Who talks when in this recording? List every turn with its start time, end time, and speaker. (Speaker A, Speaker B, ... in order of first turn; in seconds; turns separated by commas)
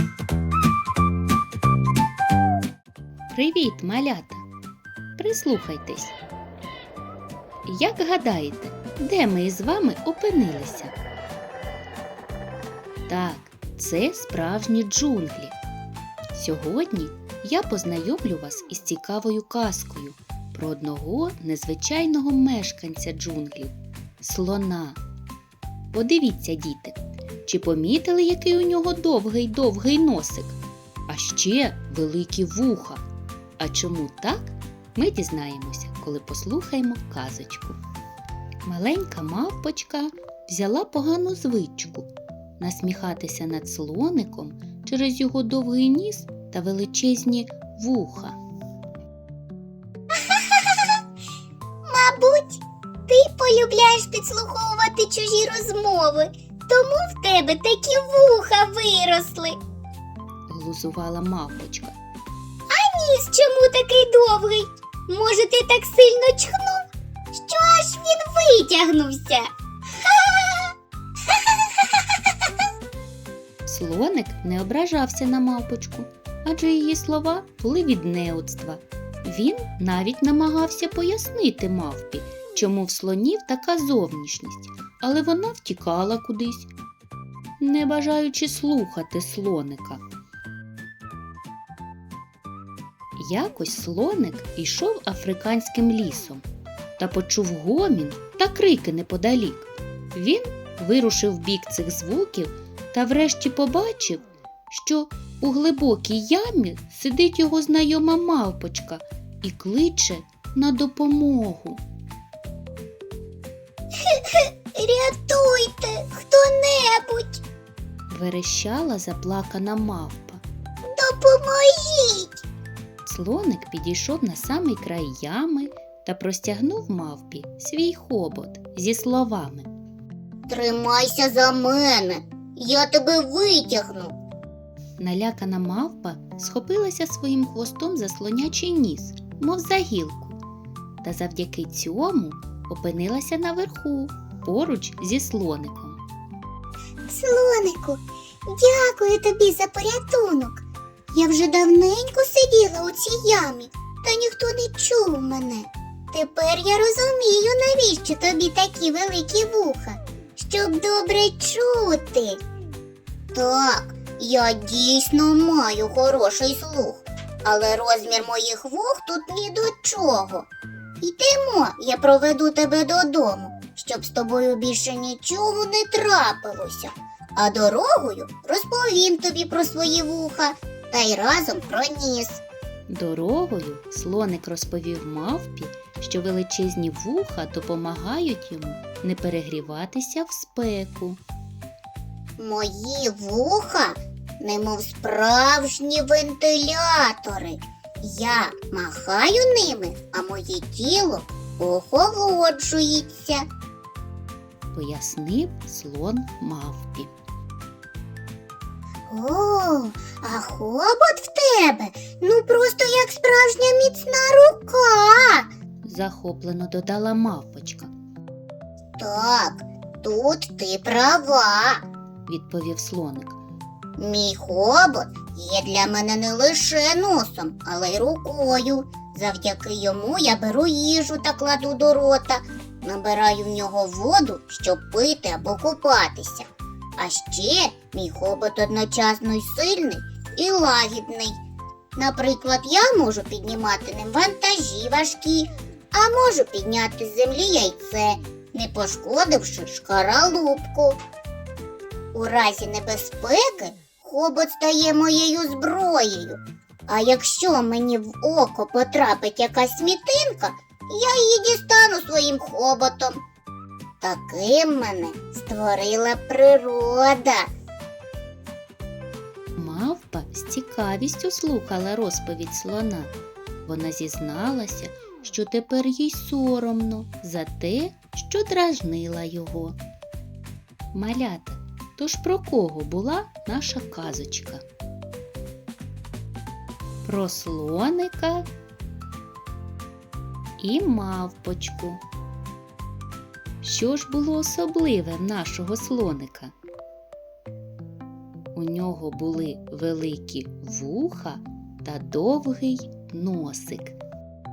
Speaker A: 3.3-4.4, Speaker A: 5.2-6.2, Speaker A: 7.7-11.0, Speaker A: 13.1-15.6, Speaker A: 16.3-25.0, Speaker A: 25.9-33.0, Speaker A: 33.6-37.8, Speaker A: 38.6-48.4, Speaker B: 50.3-50.9, Speaker B: 51.9-59.6, Speaker A: 60.5-62.0, Speaker B: 62.7-66.8, Speaker B: 67.3-69.5, Speaker B: 70.0-70.7, Speaker A: 73.7-86.7, Speaker A: 87.6-90.0, Speaker A: 93.2-96.5, Speaker A: 97.0-111.8, Speaker B: 114.0-117.4, Speaker A: 118.1-120.4, Speaker B: 120.9-122.4, Speaker A: 123.0-129.7, Speaker B: 130.5-134.2, Speaker A: 135.0-140.4, Speaker A: 141.0-146.0, Speaker B: 147.1-162.4, Speaker B: 163.3-170.5, Speaker B: 171.0-182.4, Speaker A: 182.9-191.2, Speaker B: 192.4-203.4, Speaker A: 204.7-207.1, Speaker B: 209.1-215.5, Speaker A: 215.8-217.9, Speaker B: 219.0-221.8, Speaker A: 222.3-223.4, Speaker B: 224.0-241.4, Speaker B: 242.0-251.0, Speaker B: 252.1-263.2, Speaker B: 264.0-267.5, Speaker A: 269.6-273.1, Speaker A: 273.6-279.8, Speaker A: 280.9-284.6, Speaker A: 287.0-288.5, Speaker A: 290.6-292.0, Speaker A: 293.6-296.5, Speaker A: 298.5-304.0